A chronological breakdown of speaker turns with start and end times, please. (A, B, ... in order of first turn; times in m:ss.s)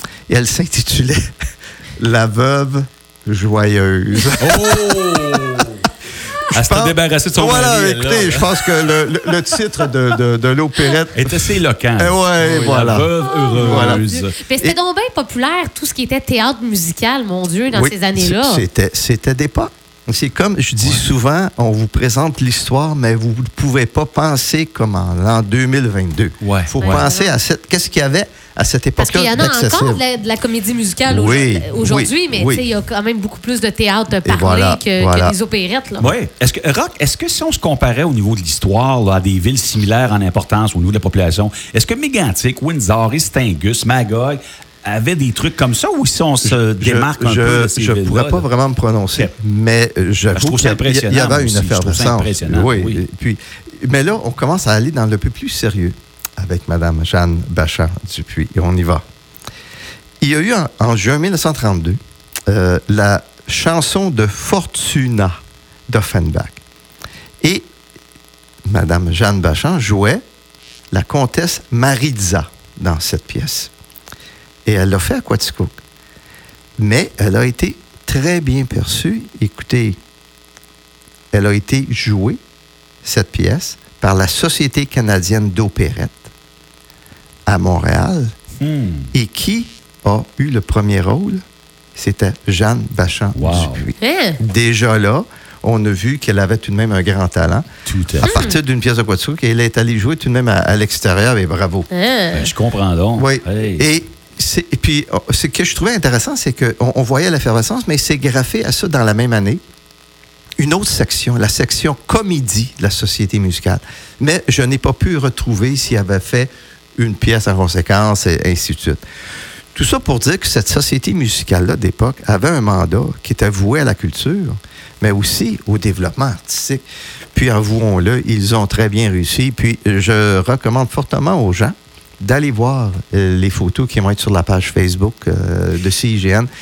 0:00.3-0:01.3 A
0:02.0-0:05.4 A
0:04.4-0:05.8 B
0:06.5-0:09.2 B
0:06.5-0:14.1 A
0:11.1-0:14.3 B
0:13.2-0:18.6 C
0:17.7-0:30.0 A
0:26.4-0:27.1 B
0:26.8-0:27.3 C
0:29.0-0:36.1 C
0:31.1-0:32.7 A
0:34.2-0:35.4 A
0:36.0-0:48.5 B
0:46.4-0:59.0 A
0:50.3-0:53.0 B
1:00.2-1:05.4 A
1:05.9-1:06.6 A
1:08.7-1:10.2 A
1:10.9-1:13.7 A
1:14.7-1:15.7 A
1:16.8-1:20.0 A
1:21.3-1:22.4 A
1:23.0-1:26.2 A
1:27.5-1:28.3 A
1:28.6-1:29.1 B
1:29.1-1:31.4 A
1:32.0-1:37.7 A
1:33.4-1:33.9 B
1:34.0-1:34.4 C
1:37.9-1:38.3 B
1:38.2-1:41.9 A
1:38.2-1:38.6 C
1:41.9-1:42.5 C
1:42.3-1:43.9 B
1:43.2-1:49.6 A
1:50.6-1:59.0 A
1:59.7-2:06.8 A
2:07.4-2:16.5 A